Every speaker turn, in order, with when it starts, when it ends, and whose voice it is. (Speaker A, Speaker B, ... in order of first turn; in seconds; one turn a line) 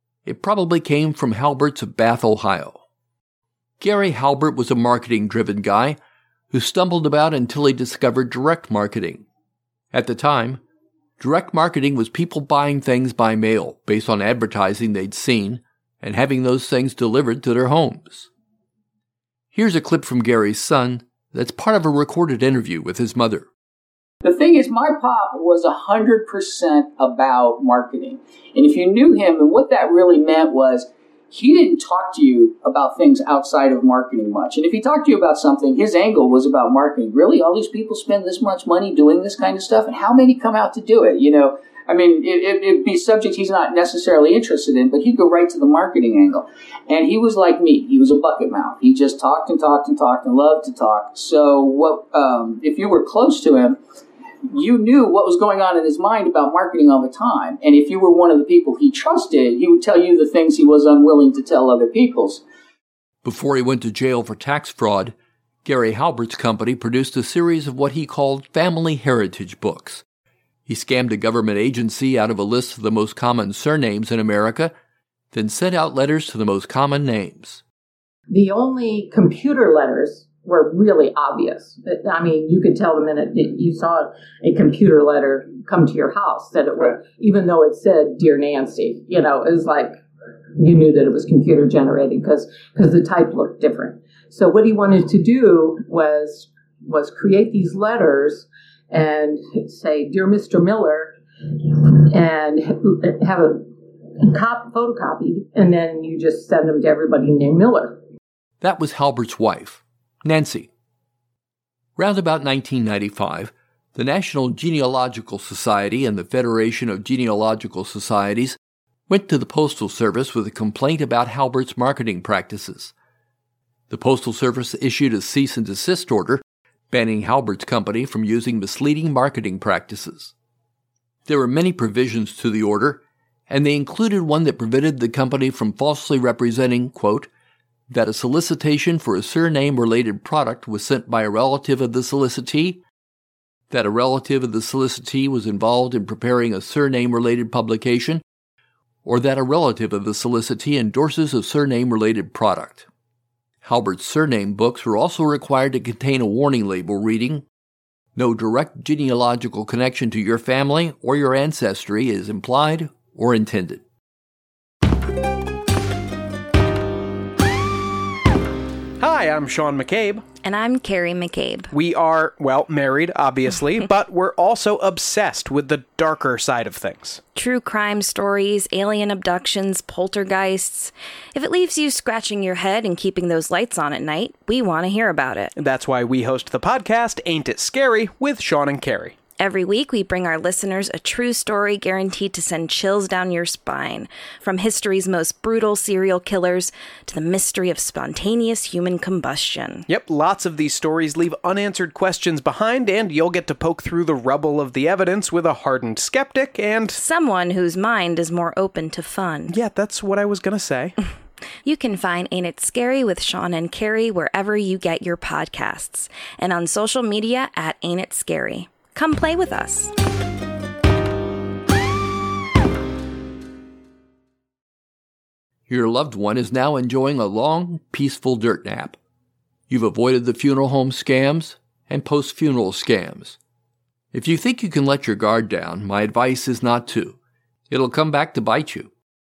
Speaker A: 0.2-2.8
Speaker A: 3.8-6.0
Speaker A: 6.5-9.2
Speaker A: 9.9-10.6
Speaker A: 11.2-18.3
Speaker A: 19.5-23.5
Speaker B: 24.2-53.8
Speaker B: 54.5-62.4
Speaker A: 63.2-70.0
Speaker A: 70.7-74.7
Speaker A: 75.3-77.6
Speaker C: 78.3-90.0
Speaker C: 90.6-101.2
Speaker C: 101.9-103.6
Speaker C: 104.2-108.0
Speaker A: 108.6-110.7
Speaker A: 112.0-122.9
Speaker A: 123.9-130.3
Speaker A: 131.2-137.3
Speaker A: 137.9-142.8
Speaker A: 143.7-148.2
Speaker A: 149.0-152.9
Speaker A: 153.6-157.4
Speaker A: 158.1-163.8
Speaker D: 169.0-170.2
Speaker E: 170.4-171.7
Speaker D: 171.7-177.2
Speaker E: 177.3-185.5
Speaker D: 185.6-189.1
Speaker E: 189.4-199.9
Speaker D: 199.9-207.0
Speaker E: 206.9-209.6
Speaker D: 209.5-210.9
Speaker E: 211.6-219.9
Speaker A: 225.7-229.0
Speaker A: 229.7-233.4
Speaker A: 234.1-237.2
Speaker A: 237.7-238.9